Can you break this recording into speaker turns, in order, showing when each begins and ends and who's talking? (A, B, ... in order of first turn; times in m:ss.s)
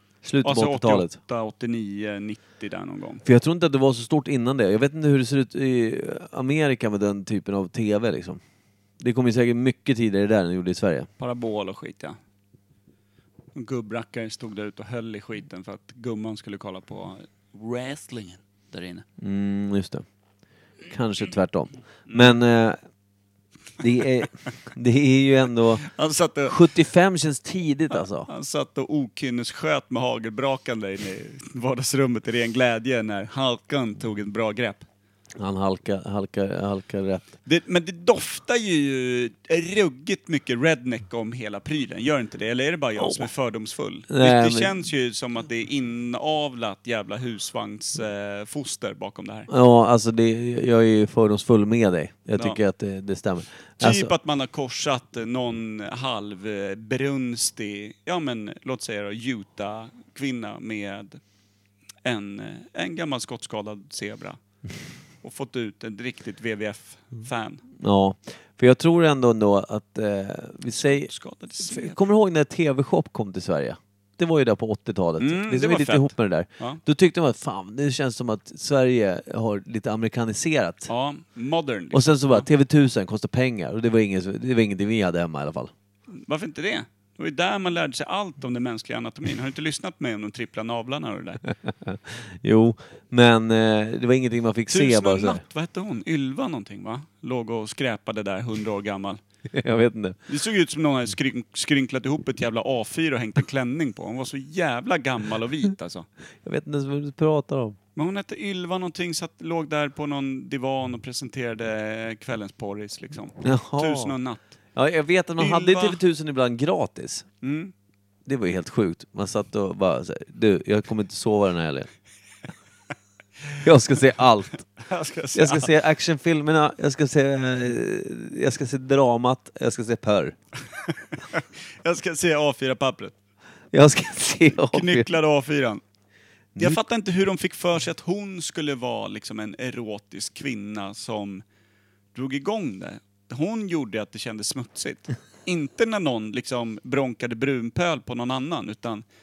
0:00.2-0:01.2 A
0:00.4-0:03.2 B
0:03.2-0:08.4 A
0:09.0-0:11.1 A
0:11.2-0:12.2 B
0:13.6-0:19.0 B
0:19.2-0:20.0 A
0:20.9-0:22.8 A
0:22.1-0:22.4 B
0:23.8-0:25.8 A
0:25.8-0:26.5 B
0:26.4-0:28.3 A
0:27.9-0:34.9 B
0:35.4-0:37.3 A
0:37.5-0:49.5 B
0:43.0-0:43.3 A
0:44.1-0:44.7 A
0:49.5-0:54.1 A
0:53.8-1:01.2 B
1:02.0-1:04.4 B
1:05.2-1:07.6 B
1:07.8-1:11.1 A
1:10.8-1:12.0 B
1:11.6-1:20.9 A
1:15.2-1:16.8 B
1:20.9-1:22.5 B
1:21.9-1:25.7 A
1:26.1-1:31.4 B
1:31.7-1:35.4 A
1:34.7-1:39.2 B
1:39.5-1:40.2 A
1:40.3-1:46.1 B
1:46.4-1:47.8 A
1:48.0-1:54.4 B
1:53.4-1:54.2 A
1:54.8-1:57.3 A
1:55.4-1:56.0 B
1:57.4-1:57.7 B
1:58.3-2:01.9 A
2:03.6-2:04.6 A
2:04.8-2:05.7 B
2:05.4-2:10.4 A
2:10.9-2:13.2 B
2:13.7-2:15.1 A
2:14.5-2:15.8 B
2:16.6-2:16.8 A
2:16.6-2:21.4 B
2:22.1-2:29.0 B